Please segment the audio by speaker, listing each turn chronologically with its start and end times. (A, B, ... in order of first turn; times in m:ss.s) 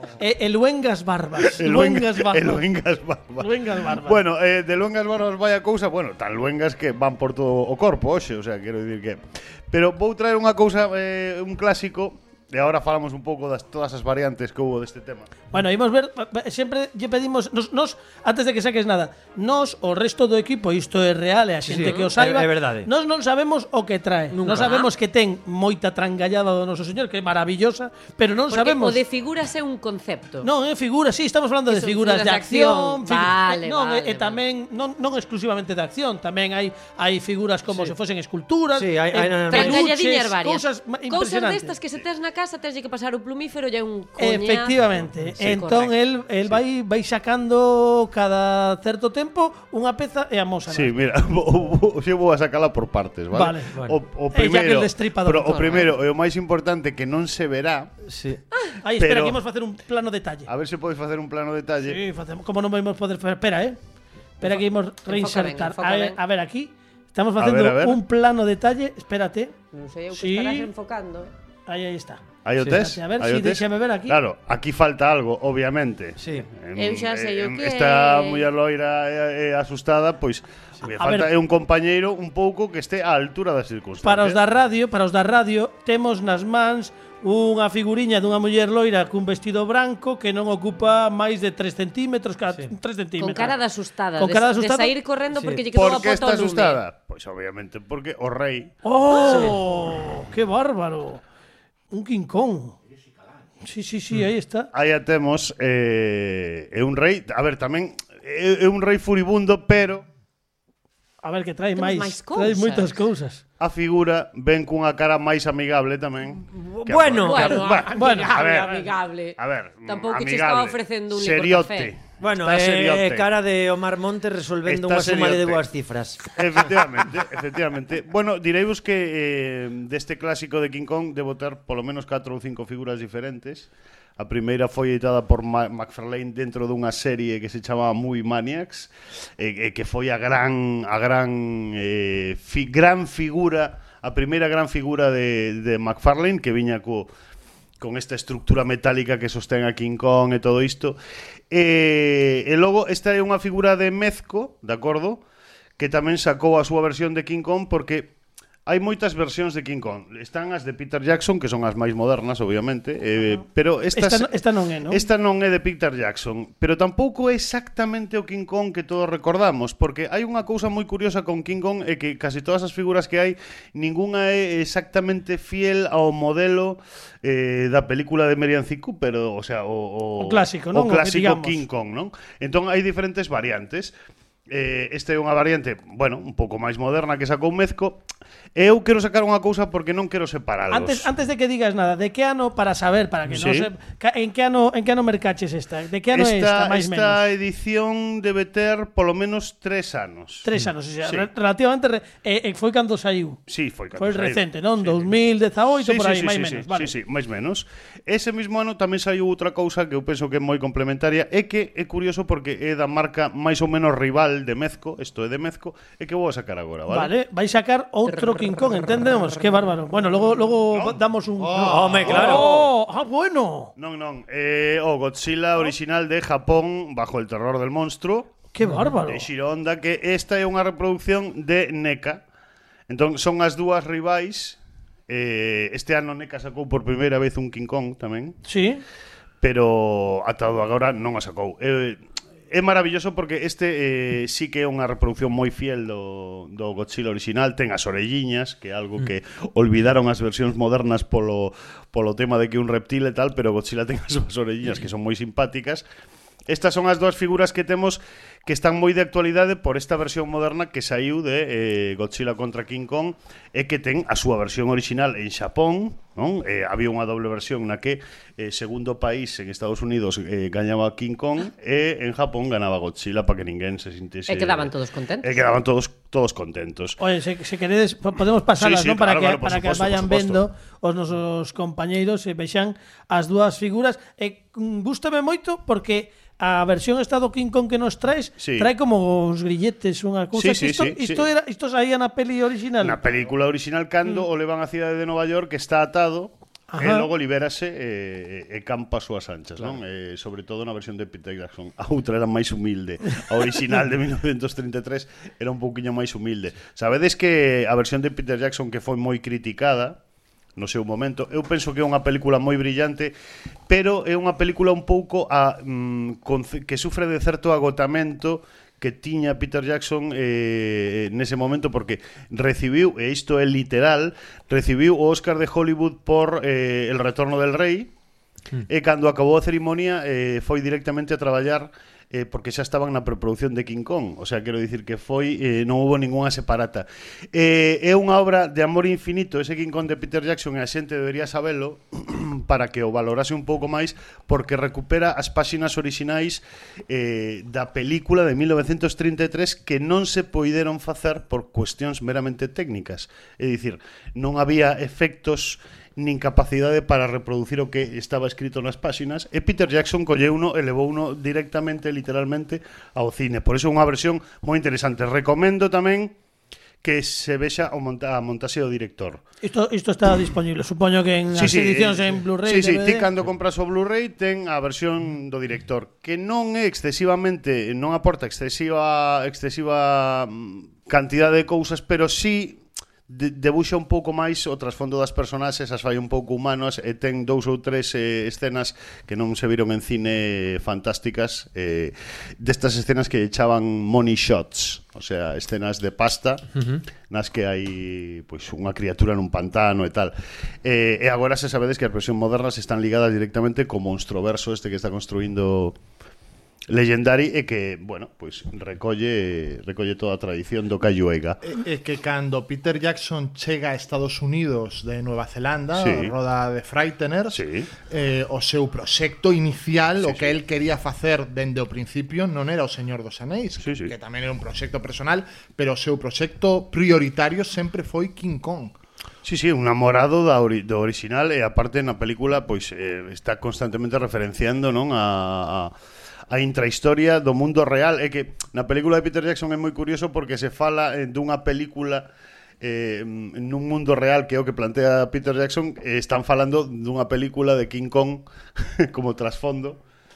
0:00.2-0:02.6 A
0:01.4-0:15.3 B
0:03.4-0:04.2 A
0:15.5-0:29.0 A
0:21.7-0:22.9 C
0:21.7-0:22.1 D
0:24.3-0:24.7 C
0:24.5-0:24.9 D
0:28.5-0:30.5 D
0:30.4-0:41.7 A
0:31.7-0:34.4 D
0:38.7-0:39.9 C
0:39.5-0:44.8 D
0:44.2-0:50.9 A
0:45.4-0:45.9 D
0:50.7-0:57.9 B
0:53.3-0:53.7 A
0:53.7-0:54.0 C
0:54.3-0:55.9 A
0:58.0-0:58.4 C
0:58.8-1:00.5 A
0:59.0-0:59.4 B
1:00.5-1:02.0 B
1:01.8-1:03.8 A
1:04.4-1:09.5 A
1:04.5-1:06.2 D
1:07.4-1:08.0 B
1:09.7-1:11.3 D
1:10.1-1:10.7 A
1:11.7-1:14.2 A
1:12.4-1:24.4 B
1:16.2-1:16.5 C
1:16.7-1:18.5 D
1:21.0-1:21.3 A
1:24.0-1:33.6 A
1:33.2-1:36.8 D
1:34.2-1:34.9 A
1:35.3-1:35.6 C
1:35.7-1:38.7 B
1:38.8-1:41.2 A
1:39.1-1:39.5 D
1:39.3-1:39.6 C
1:41.9-1:42.8 A
1:43.6-1:44.7 A
1:44.7-1:50.0 B
1:51.2-1:53.4 A
1:51.8-1:52.9 D
1:53.6-2:03.3 B
1:56.5-1:57.7 C
1:57.2-2:01.9 D
1:57.9-1:58.4 A
2:02.2-2:06.4 C
2:04.6-2:05.6 B
2:06.3-2:27.1 B
2:27.8-2:31.0 B
2:31.5-2:35.2 B
2:35.8-2:38.1 B
2:38.6-2:44.4 B
2:43.9-2:45.0 A
2:44.9-3:03.9 B
3:00.2-3:01.6 A
3:04.5-3:08.0 B
3:08.5-3:11.1 B
3:10.7-3:17.2 A
3:13.3-3:13.7 B
3:16.1-3:20.5 B
3:20.4-3:23.4 A
3:23.5-3:25.1 B
3:23.9-3:26.9 A
3:25.8-3:37.1 B
3:36.9-3:43.7 A
3:38.4-3:38.7 D
3:40.7-3:41.0 B
3:41.4-3:42.3 E
3:41.5-3:42.7 C
3:42.1-3:42.4 B
3:43.8-3:48.4 B
3:48.5-3:49.3 A
3:48.6-3:48.9 C
3:49.0-3:52.2 B
3:52.9-3:54.6 B
3:55.1-3:58.4 B
3:58.4-3:58.8 A
3:59.4-4:15.8 B
4:16.5-4:34.7 B
4:34.3-4:35.4 D
4:35.2-4:37.0 B
4:37.0-4:53.0 A
4:38.6-4:40.4 B
4:48.4-4:48.7 B
4:50.3-4:51.2 B
4:52.8-5:10.0 B
4:56.7-4:57.1 A
5:10.6-5:13.1 B
5:13.7-5:27.9 B
5:28.7-6:06.1 B
6:06.8-6:09.2 B
6:09.4-6:13.1 A
6:11.3-6:45.8 B
6:46.7-6:51.4 B
6:51.4-7:08.7 E
6:55.8-6:56.1 B
6:57.3-6:57.7 B
7:00.0-7:00.4 B
7:03.6-7:03.9 B
7:09.2-7:15.7 B
7:16.3-7:22.1 B
7:22.6-7:29.8 B